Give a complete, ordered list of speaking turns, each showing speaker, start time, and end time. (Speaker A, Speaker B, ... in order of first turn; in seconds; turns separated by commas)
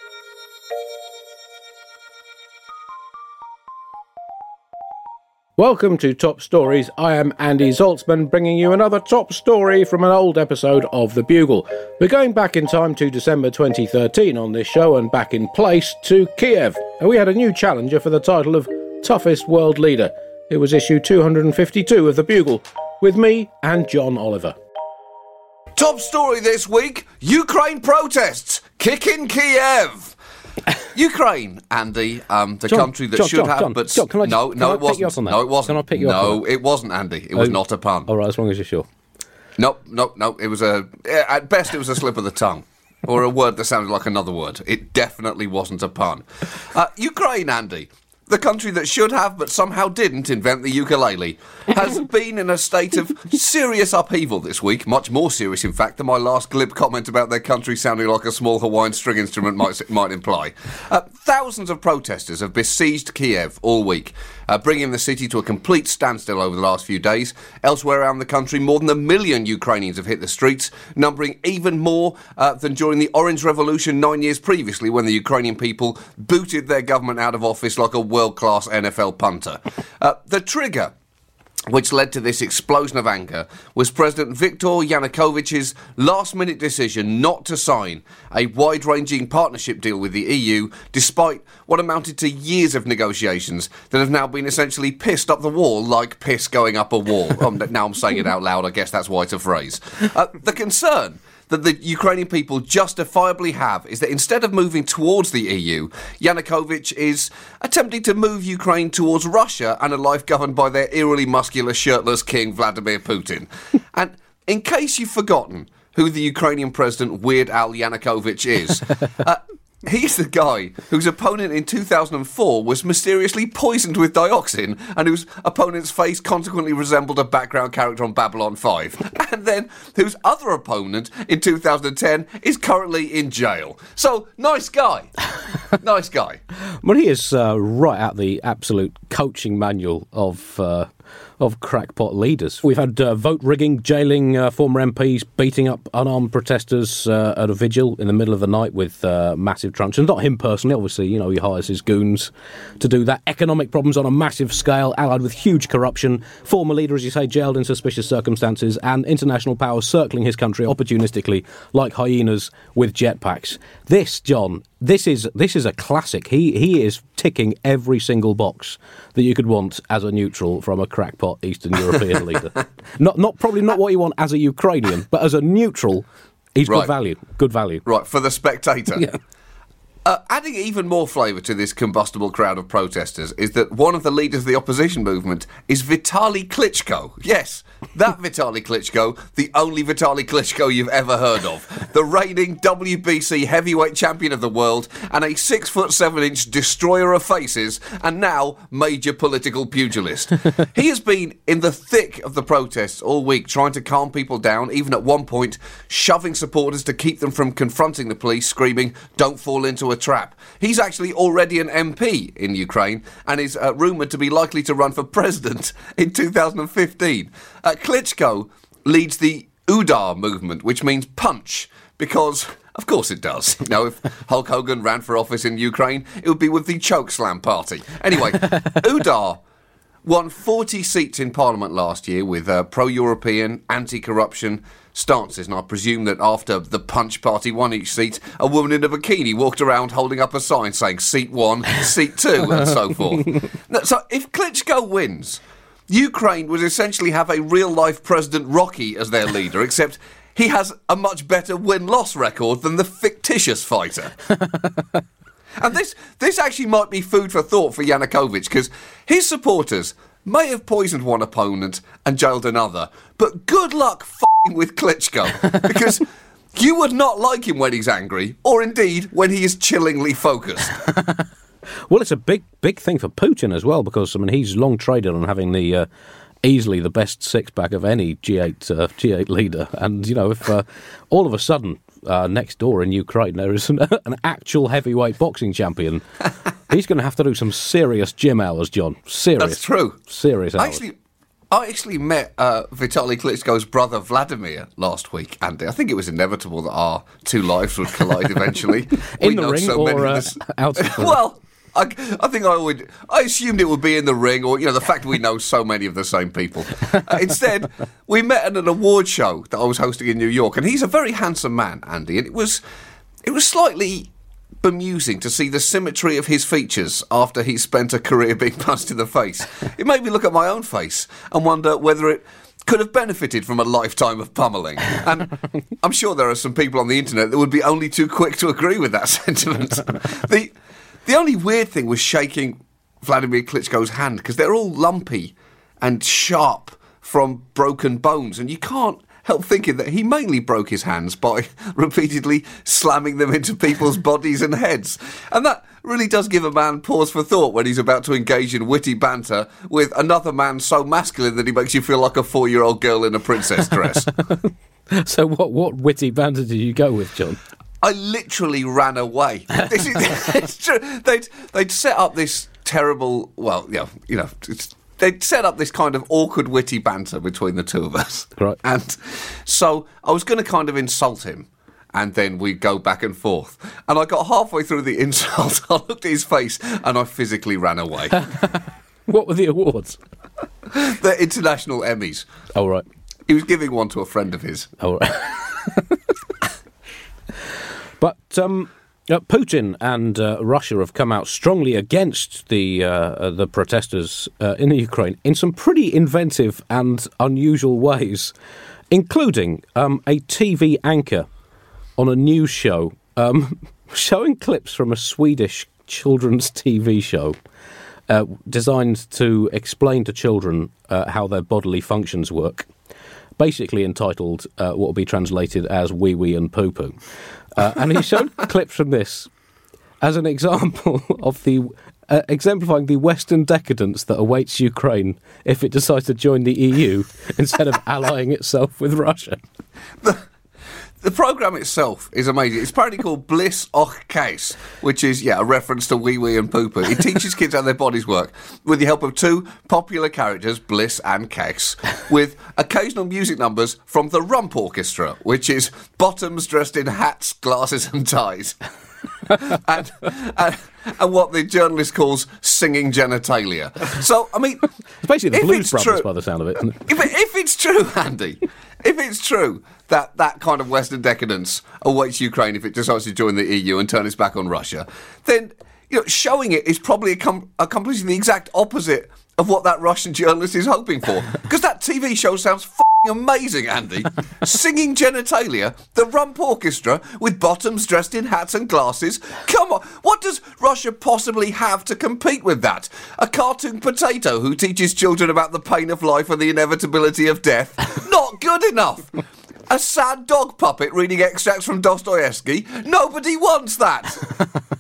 Speaker A: 5.6-24.6, Speaker B: 25.8-30.2, Speaker B: 30.9-38.1, Speaker A: 32.7-36.5, Speaker A: 37.4-38.9, Speaker B: 39.6-80.9, Speaker B: 81.7-135.1, Speaker B: 135.7-136.4, Speaker A: 136.8-177.8, Speaker B: 177.8-179.1, Speaker B: 180.1-229.4, Speaker B: 230.1-254.1, Speaker B: 255.6-270.8, Speaker A: 271.9-275.9, Speaker A: 276.4-286.0, Speaker A: 286.7-290.8, Speaker B: 289.4-290.0, Speaker B: 290.6-290.9, Speaker B: 291.5-312.6, Speaker A: 299.2-301.2, Speaker B: 313.2-314.1, Speaker B: 314.6-330.5, Speaker B: 331.1-354.1, Speaker A: 354.9-357.4, Speaker B: 357.8-378.2, Speaker A: 379.1-380.0, Speaker B: 380.7-382.3, Speaker A: 382.5-382.9, Speaker B: 383.3-384.7, Speaker A: 384.8-385.9, Speaker A: 388.0-398.3, Speaker A: 398.9-401.3, Speaker A: 402.0-407.4, Speaker A: 408.1-412.7, Speaker A: 413.4-417.0, Speaker A: 417.6-419.3, Speaker A: 420.0-429.4, Speaker B: 431.0-448.6, Speaker B: 449.3-454.6, Speaker A: 455.0-456.8, Speaker B: 455.3-456.1, Speaker B: 456.8-494.3